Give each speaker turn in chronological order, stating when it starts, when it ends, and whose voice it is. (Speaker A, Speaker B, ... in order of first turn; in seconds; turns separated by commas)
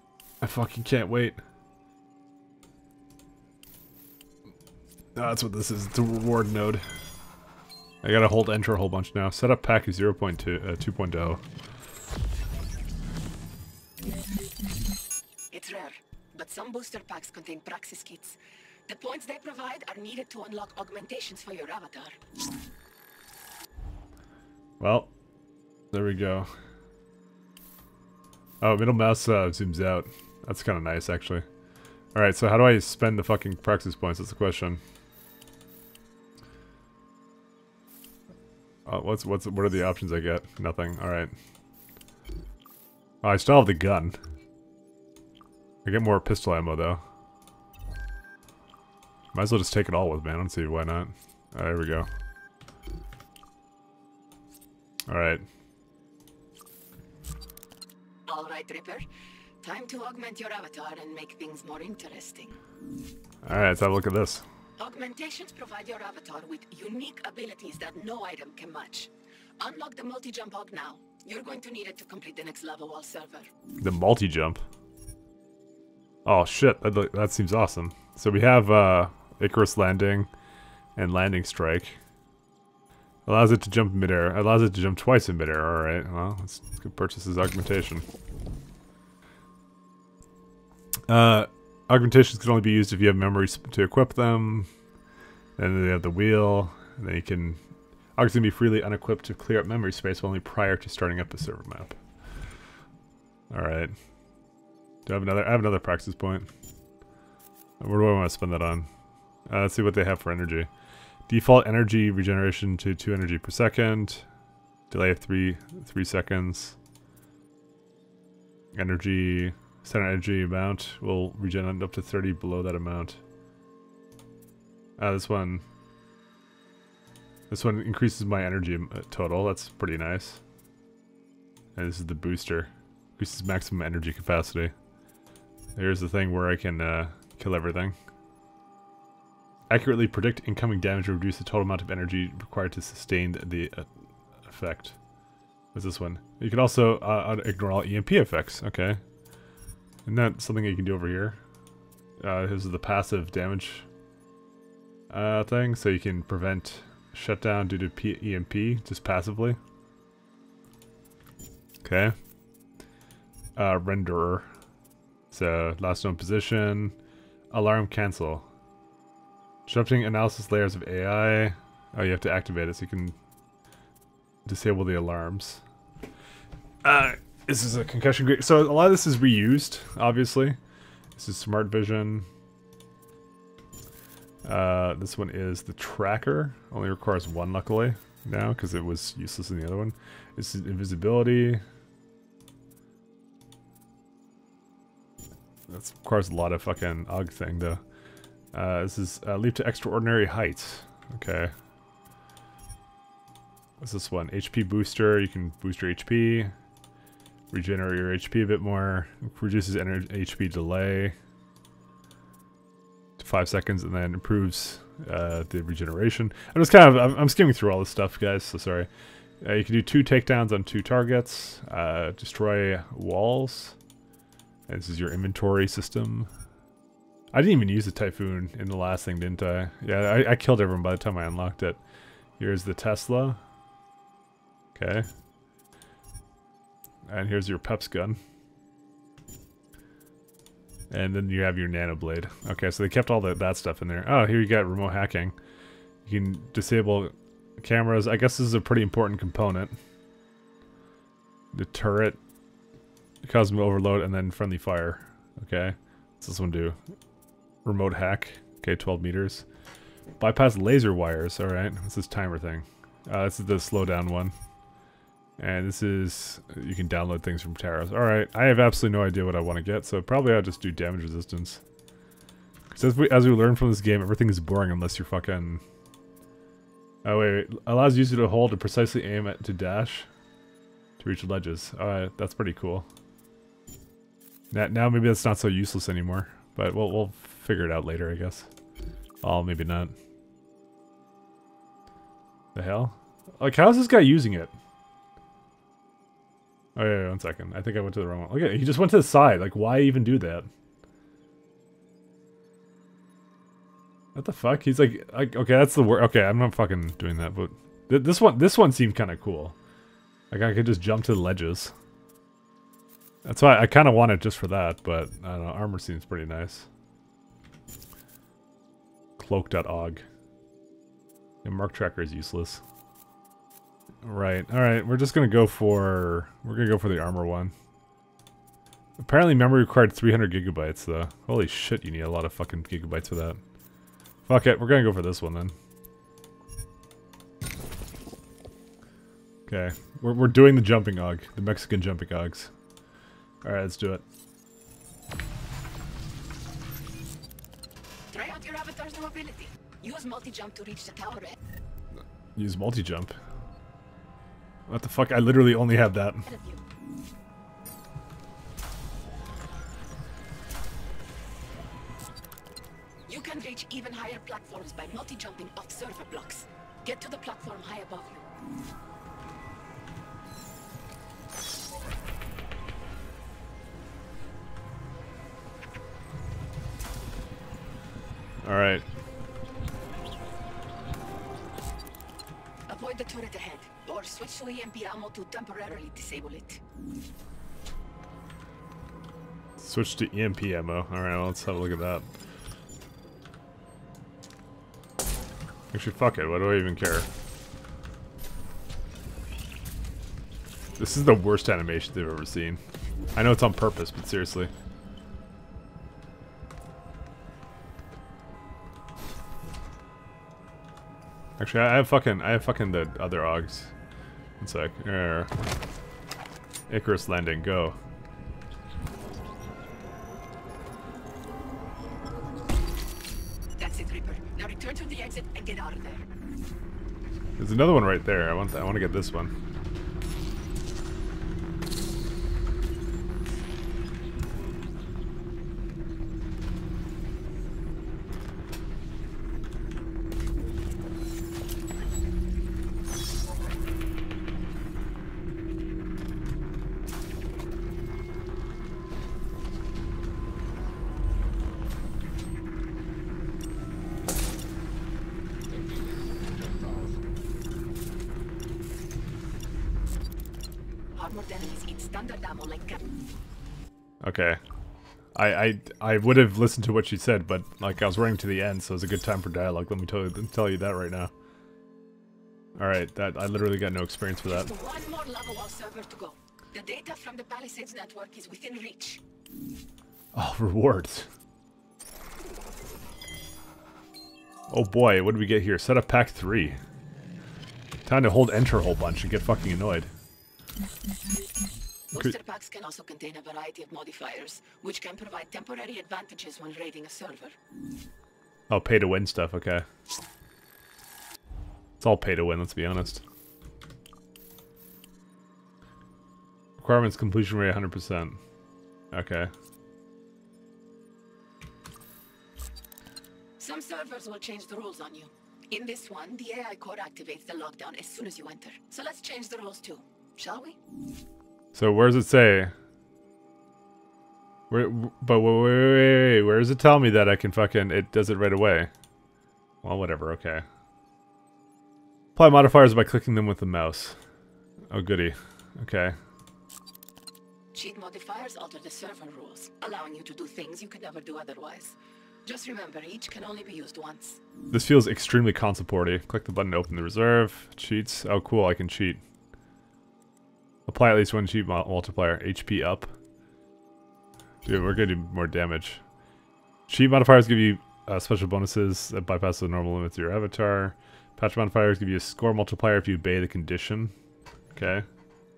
Speaker A: 0.4-1.4, Speaker A: 5.1-6.8, Speaker A: 8.0-11.4, Speaker B: 15.5-22.1, Speaker A: 24.8-25.1, Speaker A: 25.9-26.5, Speaker A: 28.6-31.4, Speaker A: 32.1-34.8, Speaker A: 38.9-41.3, Speaker A: 43.2-44.2, Speaker A: 45.8-47.0, Speaker A: 49.3-52.1, Speaker A: 55.1-55.4, Speaker B: 58.3-59.0, Speaker B: 59.6-62.5, Speaker A: 63.4-64.4, Speaker B: 64.8-73.5, Speaker A: 73.8-74.6, Speaker A: 76.2-80.3, Speaker A: 81.0-82.0, Speaker A: 83.2-88.0, Speaker A: 91.1-94.7, Speaker A: 95.6-97.6, Speaker A: 98.2-102.0, Speaker A: 103.5-103.9, Speaker A: 105.0-106.5, Speaker A: 107.8-108.9, Speaker A: 109.5-110.7, Speaker A: 111.3-114.2, Speaker A: 114.9-116.8, Speaker A: 118.7-123.2, Speaker A: 125.0-125.6, Speaker A: 127.5-130.4, Speaker A: 131.8-134.7, Speaker A: 135.8-137.9, Speaker A: 139.7-143.9, Speaker A: 144.4-144.9, Speaker A: 145.7-149.0, Speaker A: 150.1-151.4, Speaker A: 152.2-153.8, Speaker A: 155.1-159.6, Speaker A: 161.8-162.2, Speaker A: 163.6-164.5, Speaker A: 165.3-166.9, Speaker A: 167.5-168.4, Speaker A: 169.7-173.1, Speaker A: 174.4-175.6, Speaker A: 176.8-180.6, Speaker A: 181.2-182.2, Speaker A: 184.4-191.6, Speaker A: 195.7-197.8, Speaker A: 198.5-201.5, Speaker A: 203.8-206.5, Speaker A: 207.5-211.1, Speaker A: 213.2-218.9, Speaker A: 219.4-223.8, Speaker A: 224.7-226.3, Speaker A: 227.3-231.8, Speaker A: 232.4-233.4, Speaker A: 234.7-235.1, Speaker A: 237.1-238.2, Speaker A: 240.9-245.3, Speaker A: 246.0-249.8, Speaker A: 251.5-252.2, Speaker A: 253.2-256.8, Speaker A: 257.6-259.4, Speaker A: 260.2-264.3, Speaker A: 265.4-271.6, Speaker A: 272.7-275.6, Speaker A: 277.0-280.1, Speaker A: 281.0-282.9, Speaker A: 284.5-288.5, Speaker A: 289.2-289.9, Speaker A: 292.5-294.5, Speaker A: 296.8-300.5, Speaker A: 304.1-309.6, Speaker A: 310.3-311.7, Speaker A: 313.2-316.7, Speaker A: 319.2-320.0, Speaker A: 321.4-322.6, Speaker A: 324.0-327.5, Speaker A: 329.0-333.4, Speaker A: 334.2-335.5, Speaker A: 339.5-342.5, Speaker A: 343.4-344.0, Speaker B: 348.1-351.4, Speaker A: 352.4-353.1, Speaker A: 354.7-356.2, Speaker B: 356.2-356.6, Speaker B: 363.1-368.2, Speaker A: 378.4-378.8, Speaker B: 382.7-386.6, Speaker A: 389.6-392.1, Speaker A: 395.7-397.1, Speaker A: 400.8-402.6, Speaker A: 403.1-404.5, Speaker A: 411.4-413.7, Speaker A: 414.4-415.3, Speaker A: 416.7-417.8, Speaker B: 423.6-426.0, Speaker A: 427.4-429.3, Speaker B: 460.9-462.8, Speaker A: 464.0-464.4, Speaker A: 465.1-471.1, Speaker A: 472.6-474.5, Speaker B: 474.2-479.0, Speaker A: 480.1-481.1, Speaker A: 484.5-486.6, Speaker A: 487.9-489.9, Speaker B: 491.9-497.3, Speaker A: 498.5-499.6, Speaker A: 501.8-503.0, Speaker A: 506.6-508.2, Speaker A: 508.9-509.3, Speaker B: 513.4-520.5, Speaker A: 521.5-522.5, Speaker A: 524.5-528.7, Speaker A: 529.6-530.4, Speaker A: 532.1-534.0, Speaker A: 534.7-536.0, Speaker B: 537.5-544.2, Speaker A: 544.5-549.0, Speaker A: 550.7-552.9, Speaker A: 554.4-555.8, Speaker A: 556.7-563.9, Speaker A: 564.5-564.9